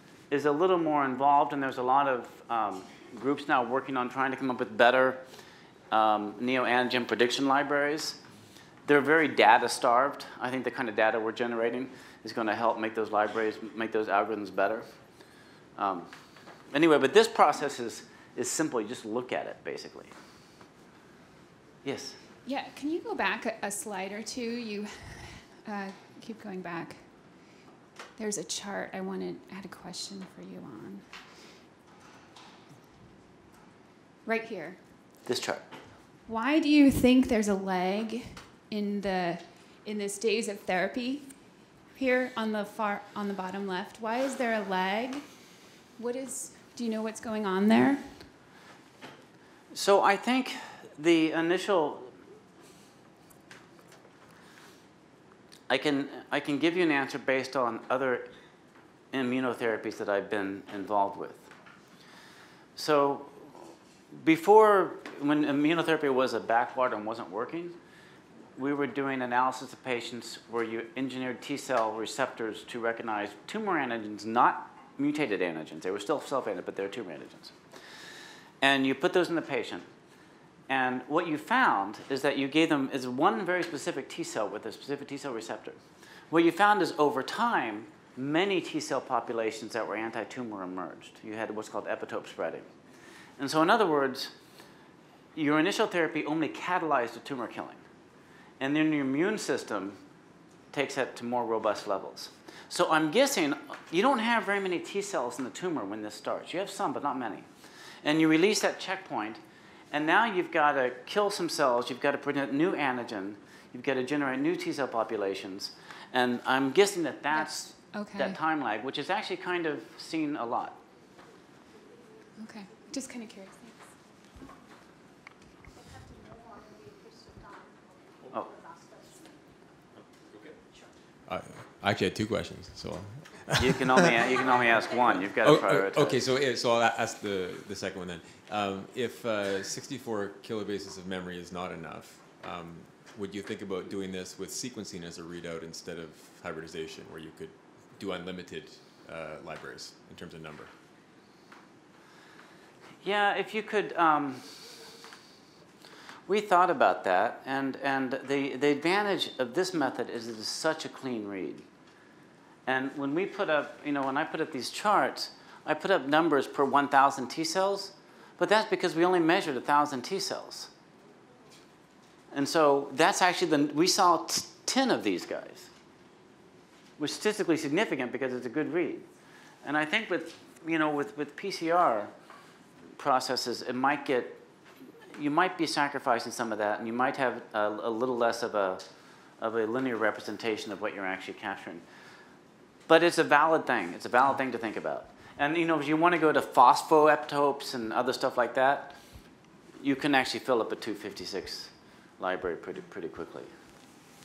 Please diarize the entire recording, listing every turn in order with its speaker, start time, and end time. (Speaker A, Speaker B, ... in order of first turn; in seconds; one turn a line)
Speaker A: 0.3-5.2
Speaker A: 5.9-8.2
Speaker A: 8.9-14.8
Speaker A: 15.8-16.1
Speaker A: 16.7-20.1
Speaker A: 21.8-22.2
Speaker B: 22.4-27.4
Speaker B: 28.2-31.0
Speaker B: 34.2-34.8
Speaker A: 35.2-35.6
Speaker B: 36.3-45.3
Speaker B: 46.0-48.3
Speaker A: 49.7-52.1
Speaker A: 55.7-58.3
Speaker A: 59.1-61.5
Speaker A: 62.8-63.6
Speaker A: 64.2-67.8
Speaker A: 68.6-77.5
Speaker A: 78.6-79.9
Speaker A: 80.7-85.8
Speaker A: 86.3-92.7
Speaker A: 93.4-94.3
Speaker A: 95.3-97.8
Speaker A: 98.6-100.0
Speaker A: 100.7-107.5
Speaker A: 108.0-120.8
Speaker B: 117.4-118.4
Speaker B: 122.4-123.9
Speaker C: 131.2-134.2
Speaker A: 133.6-136.2
Speaker C: 135.4-150.7
Speaker A: 153.0-154.6
Speaker A: 156.3-161.7
Speaker A: 162.7-170.7
Speaker A: 172.3-175.7
Speaker A: 177.0-179.1
Speaker A: 179.6-182.1
Speaker A: 183.0-184.4
Speaker A: 185.2-188.8
Speaker A: 189.4-191.8
Speaker A: 192.9-199.0
Speaker A: 199.8-203.5